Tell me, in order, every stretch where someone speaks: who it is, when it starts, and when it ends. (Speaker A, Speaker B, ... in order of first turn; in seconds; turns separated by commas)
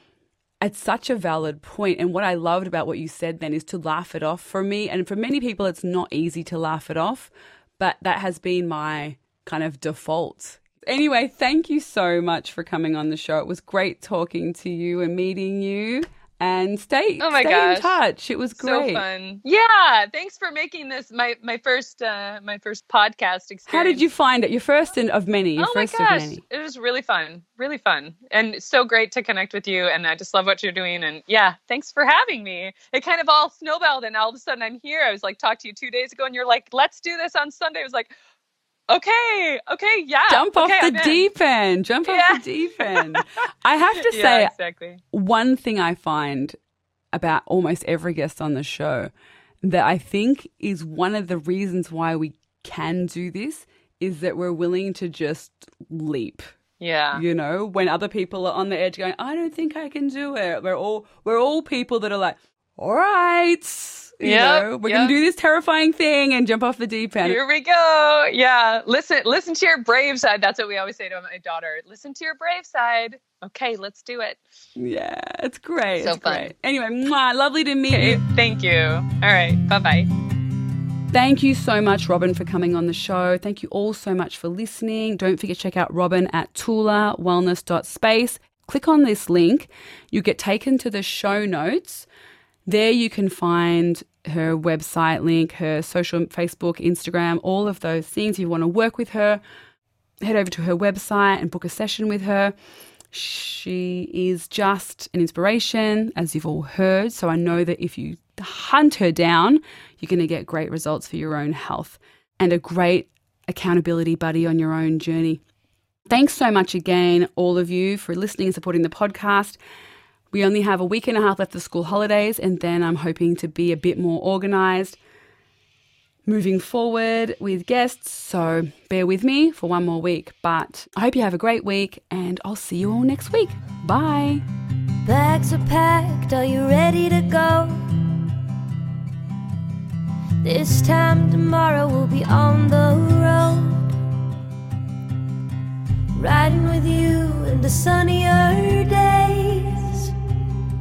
Speaker A: 0.6-19.0, Speaker B: 17.2-18.0, Speaker B: 18.6-24.0, Speaker A: 23.7-26.4, Speaker B: 25.6-38.1, Speaker B: 38.9-41.2, Speaker A: 40.3-44.5, Speaker B: 42.0-43.2, Speaker B: 44.0-45.0, Speaker A: 45.1-46.6, Speaker A: 47.1-56.5, Speaker B: 56.8-57.2, Speaker A: 57.1-67.4, Speaker B: 64.2-65.1, Speaker B: 67.2-74.4, Speaker A: 74.8-78.2, Speaker B: 76.0-76.5, Speaker B: 77.9-80.1, Speaker A: 81.1-92.1, Speaker A: 92.7-99.4, Speaker A: 100.2-102.5, Speaker A: 103.1-115.4, Speaker A: 116.1-119.6, Speaker A: 120.3-125.0, Speaker A: 126.2-134.4, Speaker C: 135.0-138.1, Speaker C: 140.4-143.9, Speaker C: 146.1-150.1